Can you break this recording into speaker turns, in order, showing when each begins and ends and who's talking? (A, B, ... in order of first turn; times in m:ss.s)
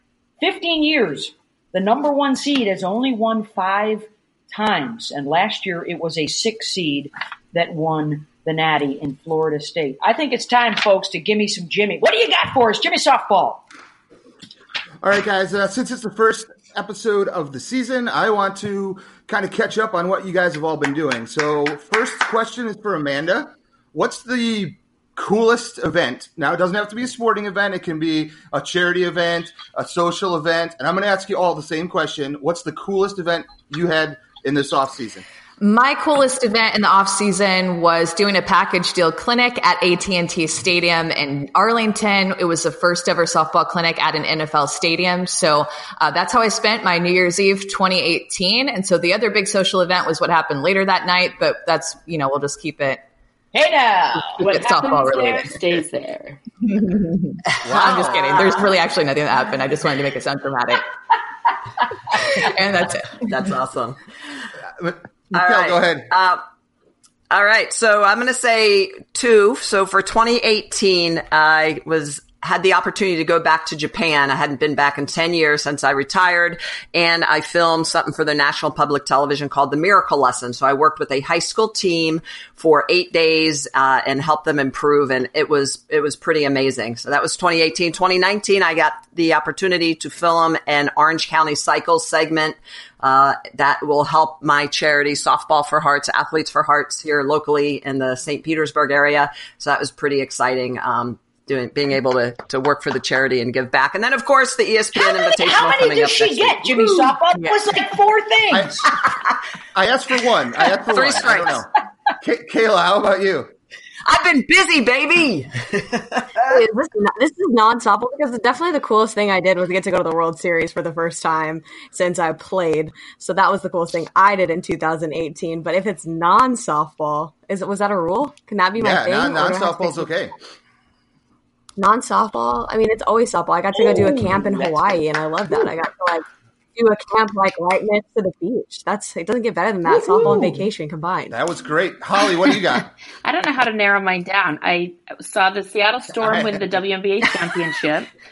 0:00.4-0:13.6 A
0:15.0-0:35.2 B
0:35.6-0:53.0 C
0:53.5-0:54.4 A
0:54.3-0:55.5 C
0:54.4-0:56.4 D
0:56.6-1:00.9 C
0:57.6-0:58.4 B
1:02.2-1:03.3 C
1:03.2-1:04.0 E
1:04.8-1:06.1 B
1:05.3-1:06.4 E
1:07.3-1:47.1 E
1:45.0-1:48.9 A
1:48.5-1:48.9 B
1:49.7-1:51.7 B
1:50.9-1:51.6 E
1:52.2-1:53.5 B
1:54.0-1:56.5 E
1:56.5-2:10.1 F
2:08.8-2:10.3 B
2:11.8-2:16.2 F
2:14.1-2:15.0 A
2:16.8-2:21.4 F
2:21.3-2:22.9 B
2:23.2-2:28.1 D